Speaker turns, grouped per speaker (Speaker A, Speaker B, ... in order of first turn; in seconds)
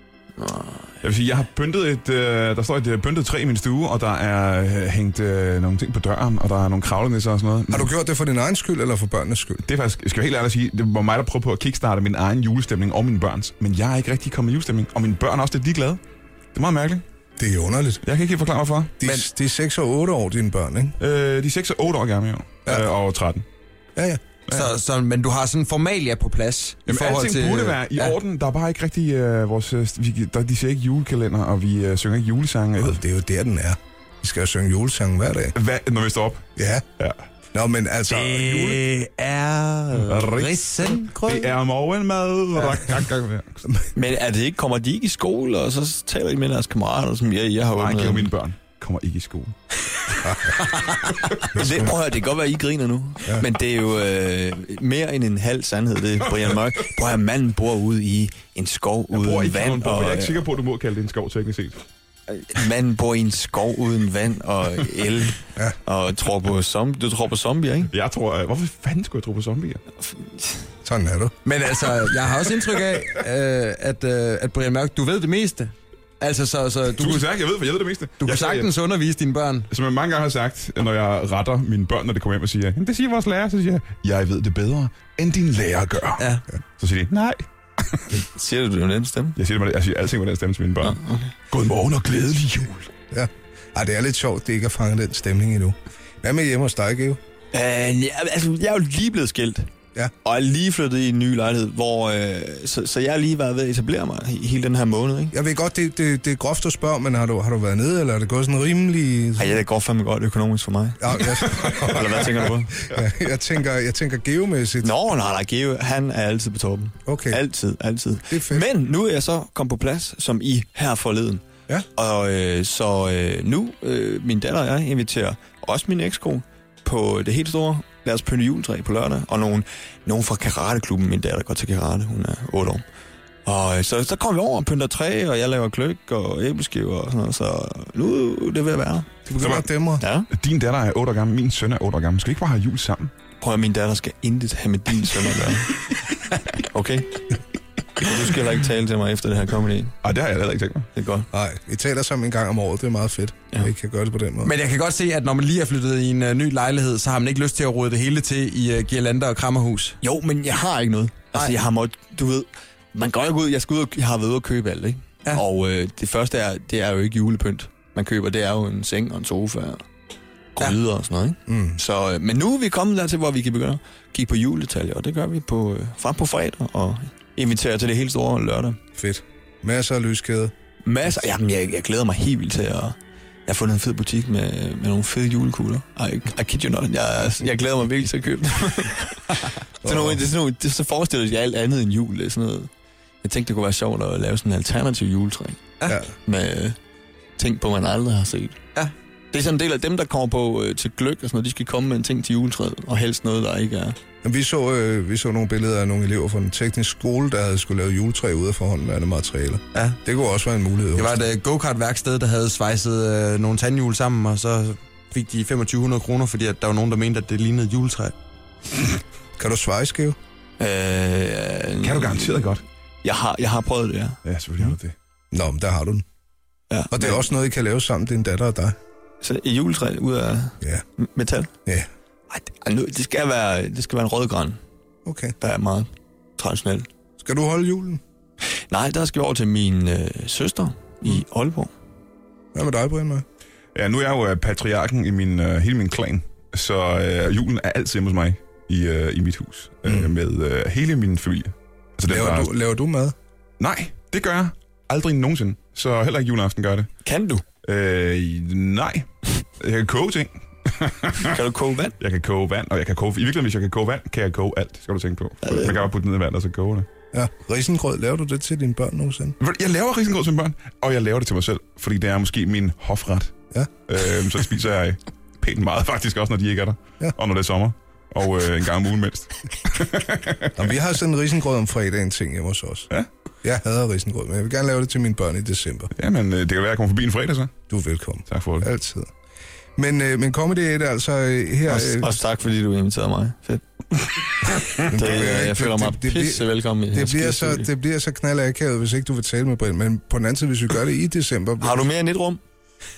Speaker A: 0.4-0.9, 43.9-48.3, 51.5-60.5, 62.3-67.9, 70.0-70.7, 88.1-89.4, 90.8-91.3, 97.5-99.7, 100.2-105.3, 109.4-112.8, 114.8-121.4, 122.0-132.8, 133.4-139.2, 140.0-140.3, 143.4-145.8, 146.6-147.4, 148.0-150.0, 150.9-151.3, 160.0-169.8, 170.6-178.8, 180.8-182.9, 183.5-192.7, 193.2-196.8, 197.4-198.6, 199.3-204.0, 220.6-224.2, 226.7-227.2, 229.2-231.5, 232.3-234.6, 235.4-236.9, 238.7-241.7, 257.0-257.4, 261.2-261.9, 265.4-265.9, 291.7-297.7, 301.6-302.4
Speaker B: 1.0-7.9, 9.6-16.0, 16.5-17.0, 18.0-18.9, 21.0-23.4, 26.9-33.0, 35.5-36.5, 37.0-37.2, 40.1-43.7, 47.7-49.6, 51.4-51.9, 59.1-61.8, 67.9-69.8, 77.0-78.7, 79.7-88.2, 89.3-91.0, 91.5-92.9, 111.6-112.0, 139.4-139.7, 140.3-143.1, 150.0-150.9, 221.8-222.6, 224.2-224.9, 243.7-252.5, 253.6-256.9, 257.6-261.4, 262.0-266.9, 269.4-273.3, 273.9-280.6, 285.9-287.5, 288.3-288.7
Speaker C: 7.7-9.6, 17.4-18.0, 19.0-21.0, 23.9-24.2, 32.8-35.5, 36.6-36.8, 37.5-38.8, 70.8-71.3, 93.1-97.2, 105.3-109.6, 111.0-114.9, 117.0-117.4, 118.3-118.7, 139.3-140.0, 151.3-154.5, 171.5-171.8, 178.9-180.5, 189.8-190.2, 204.2-211.2, 219.4-220.2, 225.3-226.0, 226.9-228.8, 235.0-235.3, 237.2-238.0, 242.5-243.2, 249.8-250.1, 252.1-253.2, 267.1-269.4, 280.6-282.9, 283.4-285.9, 287.7-289.1, 289.8-292.2, 294.8-301.9
Speaker D: 24.5-28.1, 38.1-41.5, 50.8-51.1, 71.4-77.3, 78.2-79.7, 86.2-86.4, 154.4-160.0, 210.9-218.1